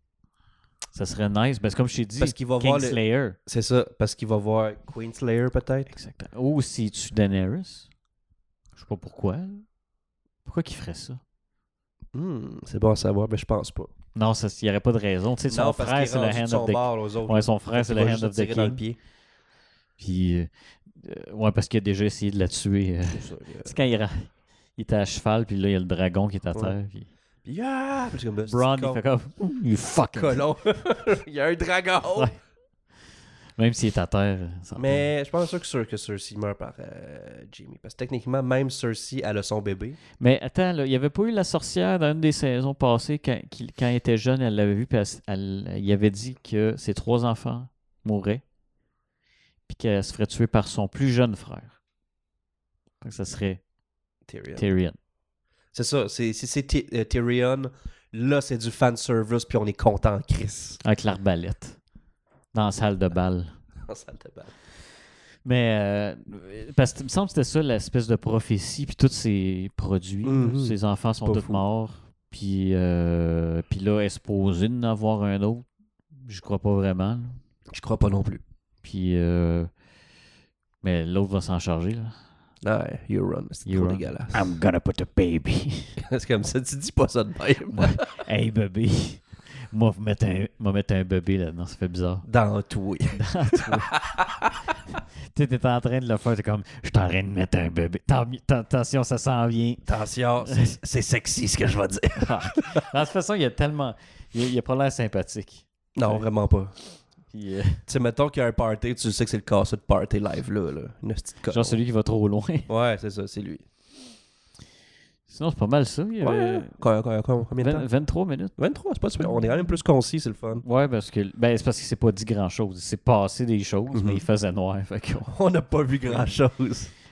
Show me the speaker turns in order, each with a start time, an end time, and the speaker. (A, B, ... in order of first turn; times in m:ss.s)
0:00.9-0:03.4 A
0:02.2-0:05.9 B
0:05.9-0:07.9 A
0:08.8-0:09.6 A
0:10.4-0:11.2 A
0:12.1-0:13.9 B
0:14.1-0:18.8 A
0:15.5-0:19.0 B
0:20.0-0:27.1 A
0:23.1-0:23.8 B
0:27.4-0:29.0 B
0:28.4-0:30.4 A
0:30.1-0:32.3 B
0:33.6-0:35.1 A
0:34.8-0:40.0 B
0:40.2-0:48.4 A
0:49.7-0:51.7 A
0:53.0-0:53.6 A
0:54.3-0:54.6 B
0:54.6-0:55.0 A
0:55.7-1:00.8 B
1:00.8-1:01.8 A
1:02.5-1:03.6 A
1:03.8-1:04.5 B
1:05.4-1:17.4 A
1:10.2-1:11.6 B
1:17.7-1:18.4 B
1:18.8-1:19.7 A
1:20.8-1:22.2 A
1:22.6-1:24.4 B
1:23.6-1:26.0 A
1:26.0-1:28.0 B
1:27.7-1:32.3 A
1:32.2-1:34.5 B
1:33.1-1:34.0 A
1:35.3-1:39.9 A
1:39.8-1:42.8 B
1:40.4-1:40.8 A
1:42.2-1:46.2 A
1:45.9-1:46.7 B
1:47.3-1:47.8 A
1:47.9-1:51.8 B
1:51.5-1:52.7 A
1:52.7-1:53.6 B
1:55.3-1:56.8 A
1:56.2-1:57.9 B
1:57.6-1:58.5 A
1:58.6-2:00.6 B
2:00.6-2:05.3 A
2:03.9-2:04.2 B
2:05.3-2:06.9 B
2:06.1-2:06.3 A